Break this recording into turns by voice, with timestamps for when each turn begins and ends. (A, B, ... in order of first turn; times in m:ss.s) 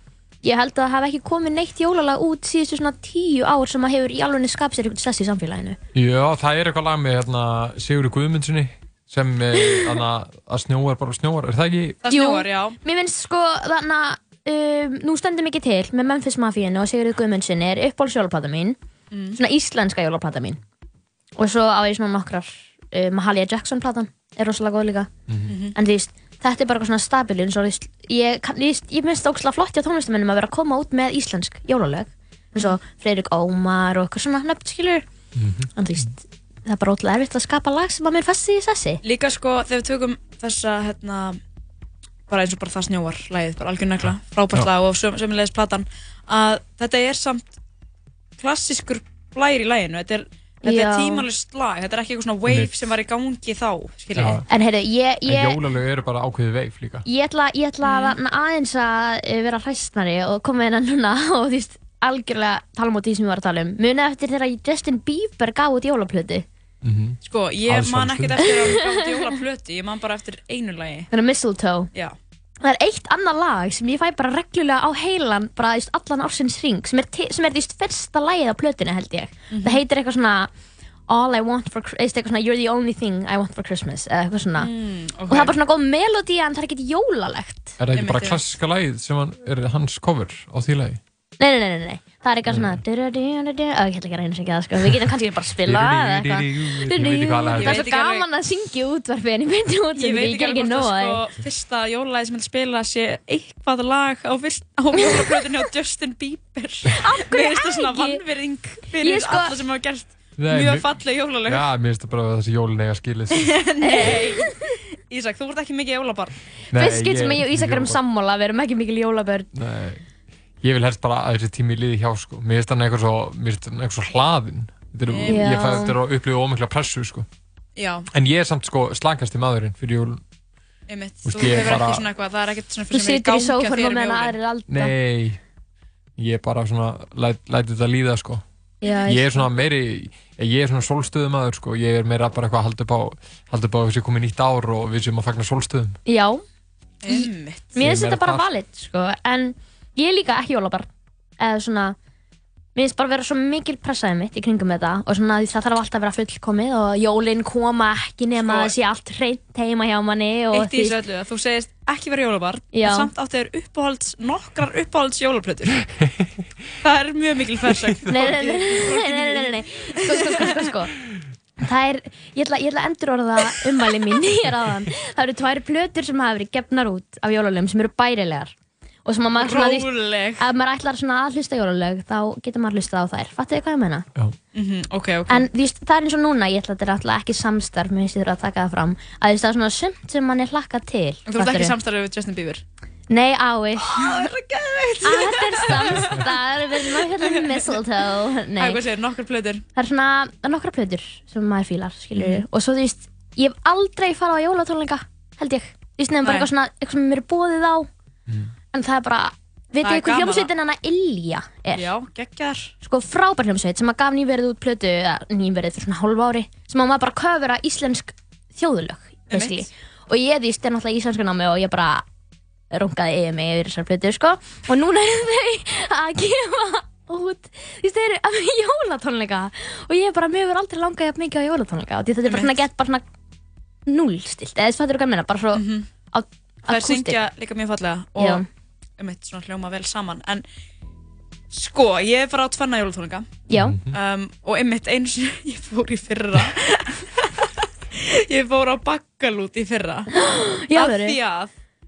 0:00.4-0:05.8 A
0:05.9-0:12.0 B
0:12.0-0:12.8 C
0:12.0-0:18.8 A
0:19.1-0:19.4 C
0:19.4-0:20.6 A
0:21.4-0:25.1 A
0:25.3-0:25.6 B
0:25.5-0:25.7 C
0:25.7-0:35.0 A
0:35.4-0:36.1 B
0:35.8-0:39.0 A
0:39.0-0:41.4 C
0:42.3-0:47.5 C
0:48.4-0:54.4 C
0:50.6-0:51.2 A
0:52.4-0:52.9 B
0:54.2-0:54.4 B
0:54.5-0:55.6 A
0:55.2-0:57.0 B
0:57.0-1:06.4 A
0:57.8-0:58.2 C
1:06.8-1:08.8 B
1:07.2-1:11.1 C
1:11.1-1:11.9 A
1:12.6-1:20.5 A
1:19.5-1:19.8 C
1:21.1-1:24.7 A
1:24.6-1:25.5 C
1:25.3-1:27.8 A
1:27.8-1:31.0 B
1:27.9-1:28.4 C
1:31.4-1:41.2 A
1:32.5-1:32.8 B
1:35.6-1:37.8 B
1:37.5-1:38.3 C
1:40.0-1:51.6 C
1:47.0-1:48.2 A
1:49.0-1:49.6 A
1:50.4-1:50.9 B
1:51.4-1:53.6 B
1:53.5-1:54.5 C
1:53.8-1:54.5 A
1:55.1-1:56.4 C
1:56.7-1:58.0 B
1:56.7-1:59.5 A
1:59.5-2:00.0 B
2:00.6-2:07.3 B
2:05.1-2:05.5 C
2:05.3-2:06.0 A
2:07.8-2:08.0 C
2:08.1-2:10.2 B
2:10.9-2:14.4 C
2:11.2-2:12.0 B
2:12.9-2:14.9 A
2:14.7-2:15.4 B
2:16.2-2:18.4 B
2:18.8-2:19.3 A
2:18.8-2:19.1 C
2:19.0-2:26.0 B
2:26.0-2:26.4 A
2:27.0-2:27.7 C
2:27.1-2:30.9 A
2:27.8-2:28.5 B
2:31.4-2:32.0 A
2:32.8-2:41.0 A
2:38.4-2:38.7 C
2:40.5-2:45.8 C
2:42.7-2:43.1 A
2:46.8-2:50.4 C
2:48.1-2:50.9 A
2:51.6-2:58.5 A
2:59.0-3:04.0 A
2:59.4-3:00.4 C
3:04.5-3:05.5 C
3:05.3-3:11.7 A
3:11.3-3:12.6 C
3:13.1-3:14.2 A
3:13.8-3:16.3 C
3:15.0-3:18.8 A
3:16.8-3:17.8 C
3:18.6-3:19.6 C
3:19.7-3:27.9 A
3:22.2-3:22.4 C
3:28.7-3:31.9 A
3:29.8-3:30.5 C
3:31.7-3:32.7 C
3:32.8-3:42.0 A
3:39.3-3:39.7 C
3:42.7-3:53.0 A
3:52.2-3:52.6 C
3:53.9-3:57.2 A
3:55.5-3:55.9 C
3:56.7-3:58.4 C
3:58.2-3:58.4 A
3:59.0-4:00.4 C
4:01.5-4:03.4 C
4:03.5-4:03.7 A
4:03.5-4:04.0 B
4:03.9-4:10.1 C
4:10.1-4:11.2 A
4:10.7-4:11.5 C